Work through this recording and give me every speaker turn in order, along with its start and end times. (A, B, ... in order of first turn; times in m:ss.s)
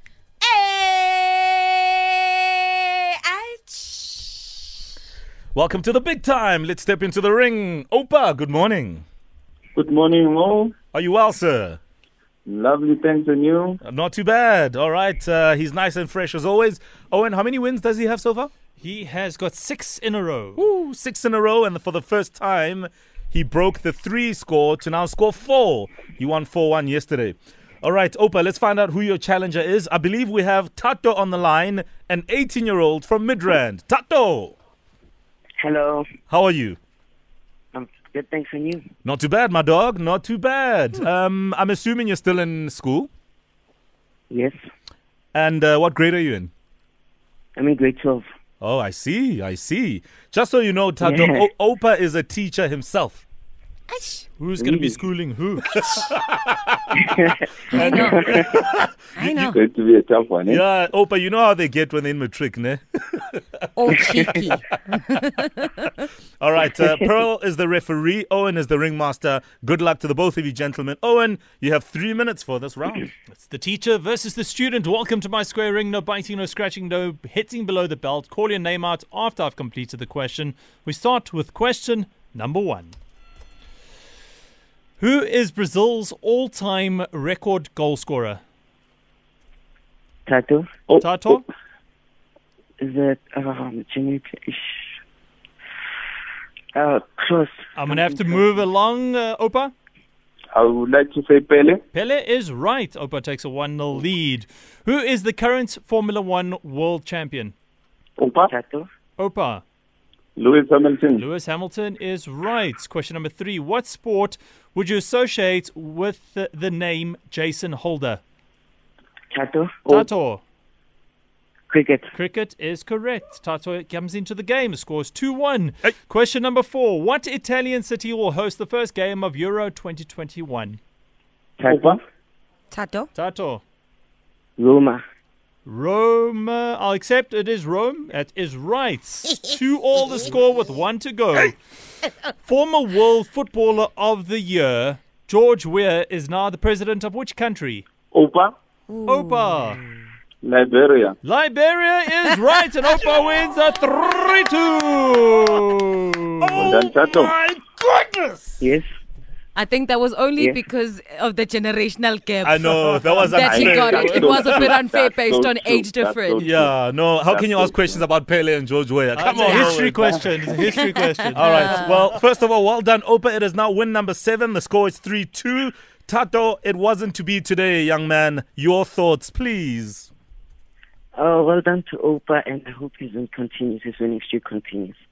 0:00.4-0:04.6 A
0:05.5-0:09.0 B
0:09.8-0:10.7 C
0:10.9-0:11.8 B
0:12.5-0:13.8 C
0:13.8-0:18.5 B
0:18.8-0:20.6 D
0:20.6-0:34.5 B
0:35.6-0:36.0 E
0:36.3-0:36.8 B
0:37.7-0:38.8 E
0:39.0-0:43.1 B
0:44.3-0:44.5 E
0:45.3-0:46.5 B
0:47.6-0:48.2 E
0:48.6-0:53.2 B
0:51.0-0:51.5 E
0:53.9-0:54.2 A
0:54.4-0:55.8 D
0:55.8-0:57.0 B
0:57.1-0:57.3 E
0:57.7-0:58.6 A
0:57.7-0:58.9 B
0:59.2-0:59.6 A
0:59.2-1:00.6 C
1:00.5-1:04.5 B
1:03.8-1:05.9 A
1:06.4-1:13.1 B
1:13.3-1:22.9 D
1:25.0-1:28.4 D
1:30.2-1:30.8 E
1:31.0-1:31.4 D
1:32.8-1:34.8 E
1:36.7-1:38.4 E
1:37.8-1:39.7 D
1:40.5-1:41.8 C
1:41.9-1:47.5 D
1:48.2-1:48.5 C
1:48.4-1:48.9 E
1:49.2-1:49.6 D
1:50.4-1:51.2 C
1:51.1-1:58.2 D
1:59.3-2:00.1 E
1:59.8-2:00.4 D
2:01.7-2:02.1 E
2:02.1-2:10.8 D
2:11.6-2:12.0 E
2:11.7-2:12.0 C
2:12.7-2:13.1 A
2:13.1-2:13.6 D
2:14.6-2:15.0 E
2:15.6-2:21.6 D
2:22.4-2:27.8 D
2:28.1-2:28.5 C
2:28.9-2:29.9 A
2:29.1-2:29.8 D
2:30.4-2:31.2 C
2:31.2-2:36.7 D
2:36.4-2:38.6 B
2:36.6-2:37.3 C
2:38.6-2:38.8 E
2:39.5-2:46.5 A
2:42.4-2:44.7 B
2:43.4-2:48.0 C
2:46.4-2:50.2 B
2:49.2-2:52.0 D
2:49.4-2:49.8 A
2:49.8-2:50.2 C
2:50.6-2:50.8 A
2:51.3-3:00.1 B
2:51.4-2:51.8 A
3:01.2-3:05.0 E